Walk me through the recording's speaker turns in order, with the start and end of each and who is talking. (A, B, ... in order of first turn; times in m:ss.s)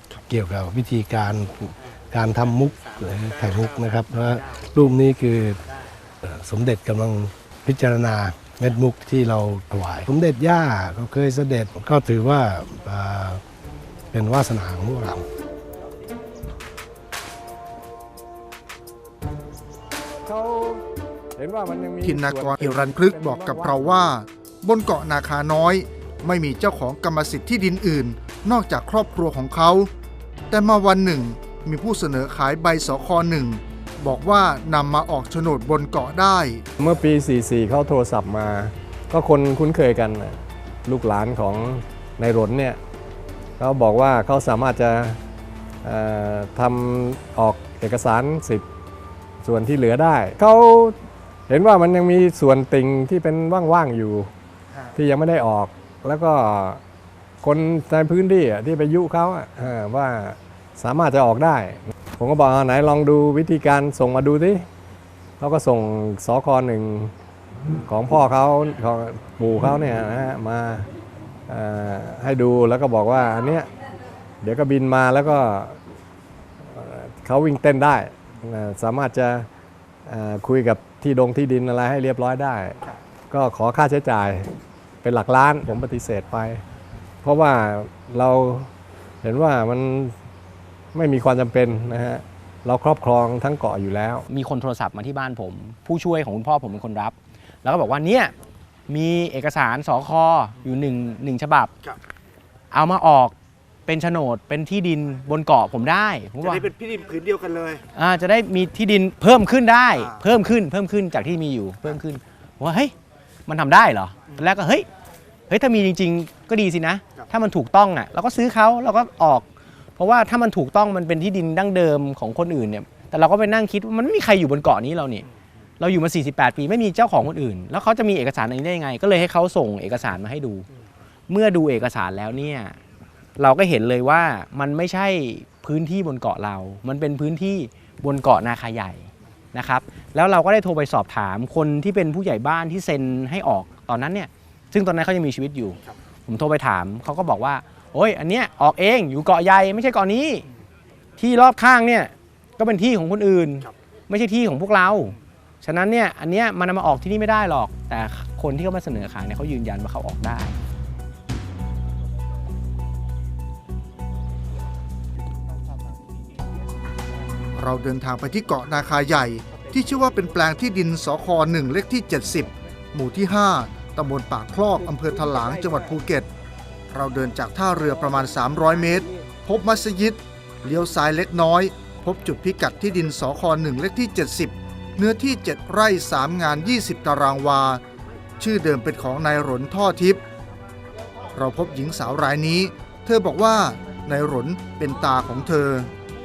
0:00.3-0:05.6 A
0:06.2-0:13.4 A
0:14.1-0:15.2 A
0:20.2-0:20.8 B
0:21.4-0:24.0 B
0:22.0-0:29.9 C
0:30.5-0:36.6 C
0:36.8-0:42.8 B
0:43.6-0:45.2 B
0:45.8-0:48.6 B
0:49.4-0:54.3 B
0:54.9-0:56.8 B
0:57.4-1:04.6 B
1:05.4-1:07.1 B
1:07.8-1:10.9 B
1:11.5-1:13.7 B
1:14.4-1:15.8 B
1:16.6-1:19.5 B
1:20.1-1:22.8 B
1:23.3-1:24.5 B
1:25.0-1:26.6 B
1:27.2-1:28.7 B
1:29.2-1:30.1 B
1:30.9-1:34.2 B
1:34.3-1:38.3 D
1:38.9-1:41.7 D
1:42.7-1:43.4 D
1:43.9-1:46.7 D
1:46.4-1:47.8 C
1:48.0-1:52.9 D
1:50.0-1:50.2 C
1:53.5-1:54.9 D
1:55.5-1:59.5 D
2:00.0-2:05.2 D
2:05.8-2:10.7 D
2:11.3-2:12.8 D
2:13.4-2:30.5 D
2:31.2-2:40.6 D
2:47.6-2:56.3 C
2:56.9-3:07.8 C
3:08.4-3:10.2 C
3:11.3-3:15.9 C